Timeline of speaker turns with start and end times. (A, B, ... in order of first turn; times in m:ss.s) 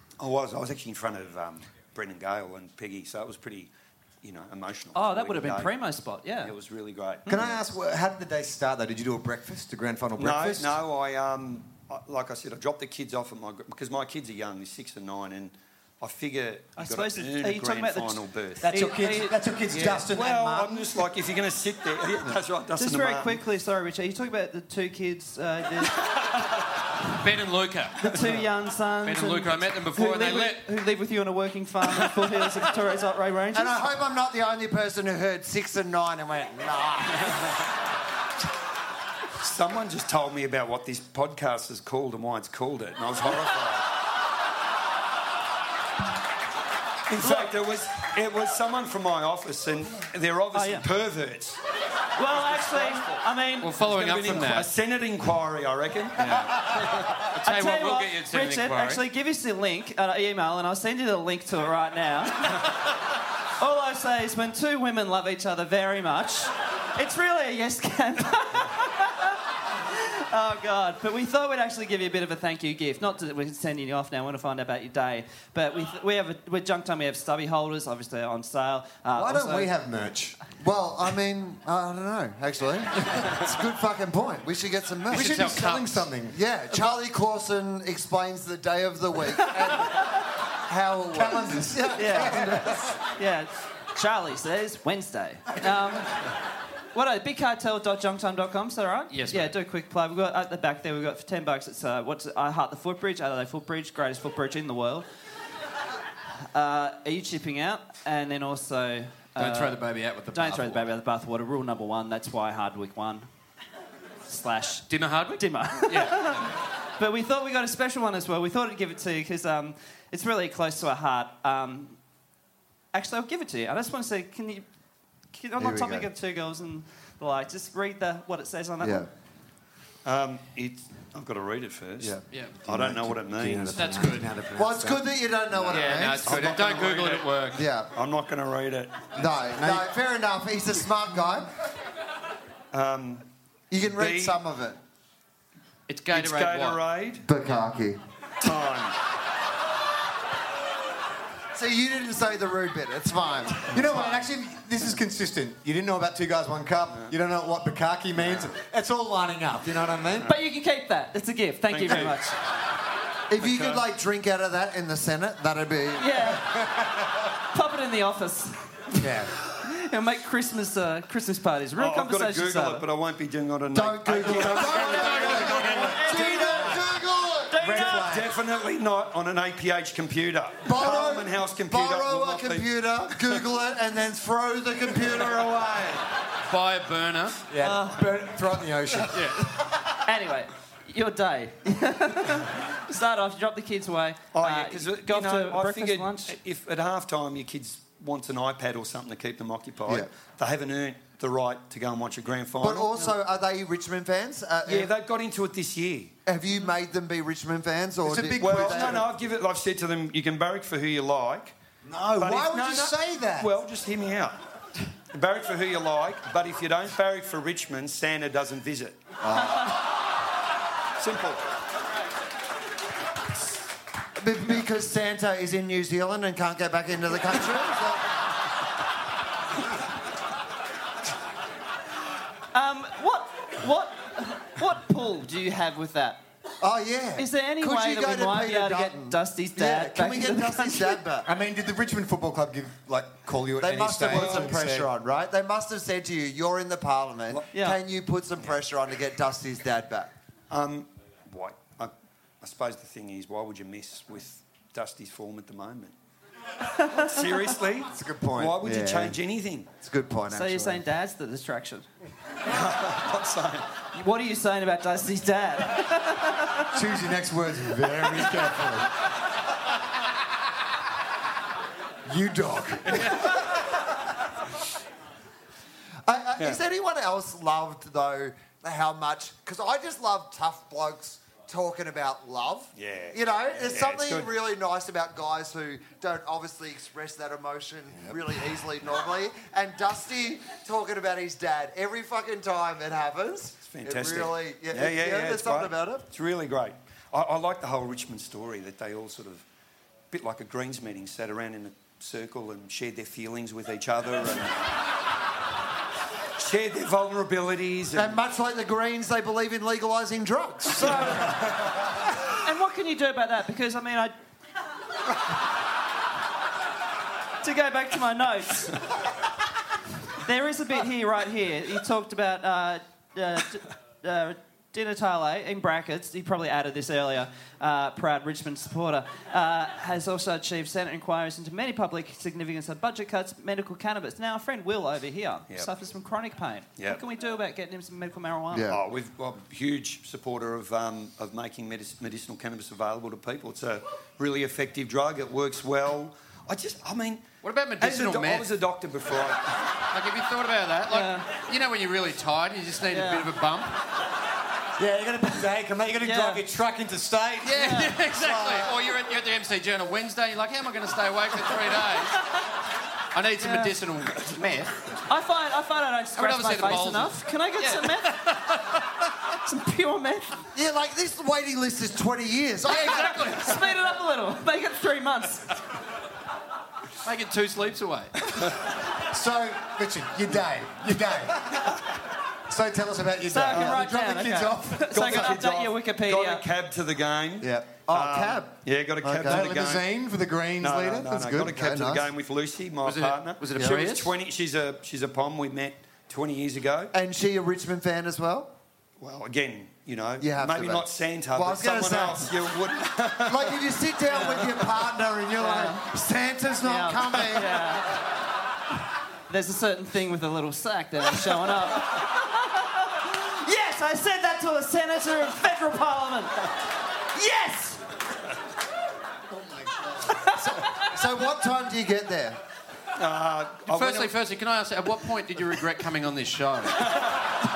0:00.2-0:05.8 A
0:04.9-0:06.5 B
0:06.4-0:07.6 A
0:07.3-0:10.8 C
0:10.2-0:18.7 A
0:16.8-0:19.4 B
0:18.6-0:20.8 C
0:19.7-0:23.4 A
0:22.8-0:26.0 B
0:27.1-0:28.3 D
0:28.0-0:33.9 B
0:29.0-0:30.6 D
0:33.5-0:37.6 E
0:39.4-0:43.8 A
0:47.1-0:51.6 A
0:50.5-0:50.9 B
0:52.2-0:53.7 B
0:52.3-0:53.2 A
0:53.6-0:54.7 D
0:53.8-0:56.6 A
0:56.2-0:59.0 D
0:57.4-1:02.6 B
1:03.6-1:19.7 B
1:19.1-1:20.4 C
1:20.6-1:25.5 E
1:25.1-1:26.1 D
1:25.1-1:26.4 C
1:26.3-1:32.6 E
1:29.6-1:30.0 B
1:31.1-1:33.0 C
1:32.0-1:36.3 B
1:36.9-1:45.1 B
1:39.1-1:39.5 D
1:46.5-1:49.8 B
1:49.4-1:50.8 D
1:50.3-1:53.3 B
1:54.3-2:02.0 B
1:54.9-1:56.5 D
2:02.9-2:04.6 B
2:05.3-2:09.1 B
2:05.6-2:06.1 E
2:08.8-2:09.1 E
2:10.0-2:13.7 A
2:12.3-2:12.6 D
2:12.6-2:15.7 C
2:13.7-2:14.3 D
2:14.6-2:16.3 E
2:15.7-2:17.6 D
2:16.2-2:17.4 A
2:17.5-2:17.9 E
2:17.9-2:19.1 A
2:19.1-2:21.5 E
2:19.4-2:19.9 C
2:22.7-2:23.2 A
2:23.7-2:24.8 E
2:23.9-2:24.4 A
2:25.9-2:26.8 D
2:26.1-2:27.2 A
2:27.2-2:28.0 E
2:28.4-2:29.0 A
2:31.5-2:34.2 E
2:33.7-2:40.3 C
2:40.2-2:42.4 B
2:41.7-2:42.2 A
2:43.3-2:46.3 E
2:43.4-2:43.8 A
2:46.0-2:46.6 B
2:46.5-2:47.0 C
2:47.4-2:48.6 B
2:48.9-2:49.3 C
2:49.5-2:52.8 B
2:51.8-2:55.1 A
2:53.7-2:57.6 E
2:54.2-2:57.0 C
2:55.6-2:56.7 B
2:57.5-2:58.1 B
2:57.6-2:58.3 C
2:57.9-3:03.4 A
3:00.6-3:06.0 E
3:06.4-3:07.4 D
3:07.5-3:09.6 C
3:07.6-3:08.1 B
3:09.1-3:09.4 D
3:10.0-3:16.4 B
3:14.3-3:23.0 A
3:22.6-3:24.9 E
3:24.6-3:26.1 A
3:26.2-3:29.1 E
3:28.0-3:29.0 C
3:28.4-3:31.6 A
3:31.8-3:33.5 C
3:32.2-3:34.4 A
3:35.1-3:39.0 A
3:39.2-3:39.7 E
3:41.0-3:41.4 A
3:44.2-3:48.0 E
3:52.5-3:56.2 B
3:56.6-4:01.3 E
3:57.2-4:01.0 B
4:01.2-4:04.9 C
4:03.6-4:10.1 E
4:04.1-4:04.5 A
4:07.5-4:07.8 B
4:10.5-4:15.9 A
4:16.7-4:17.2 B
4:16.9-4:19.7 A
4:17.8-4:18.6 C
4:18.6-4:19.2 E
4:19.8-4:20.8 E
4:20.3-4:21.9 B
4:22.4-4:23.7 A
4:23.9-4:26.7 B
4:26.7-4:28.9 C
4:32.0-4:33.2 C
4:36.0-4:56.0 E
4:42.8-4:44.3 A
4:53.6-4:59.4 A
5:00.1-5:04.6 A
5:06.4-5:08.2 A
5:07.9-5:11.4 E
5:12.4-5:14.1 B
5:17.4-5:18.8 B
5:20.2-5:38.7 B
5:38.5-5:38.8 E
5:38.7-5:47.2 A
5:47.4-5:48.5 D
5:47.8-5:49.6 A
5:49.9-5:53.8 D
5:50.9-5:51.3 B
5:52.9-5:53.3 B
5:54.8-5:58.8 C
5:56.0-5:56.4 B
5:57.4-6:02.3 D
5:57.6-5:57.9 B
6:03.1-6:04.9 D
6:03.4-6:03.7 B
6:05.1-6:08.2 B
6:06.2-6:08.8 D
6:09.4-6:10.4 B
6:10.5-6:13.4 E
6:12.7-6:13.7 D
6:12.7-6:15.5 B
6:17.0-6:18.3 D
6:19.0-6:21.7 C
6:22.5-6:25.0 C
6:23.3-6:26.4 B
6:23.5-6:23.8 A
6:24.9-6:29.9 A
6:27.4-6:29.5 E
6:29.2-6:31.3 C
6:30.6-6:36.9 A
6:31.1-6:32.1 E
6:32.8-6:34.1 D
6:36.9-6:38.5 E
6:39.0-6:43.6 A
6:40.2-6:42.4 E
6:43.2-6:47.6 E
6:45.4-6:45.9 B
6:46.6-6:48.0 B
6:49.3-6:56.5 B
6:57.1-6:57.8 B
7:00.3-7:02.4 E
7:03.0-7:04.1 A
7:03.7-7:07.0 D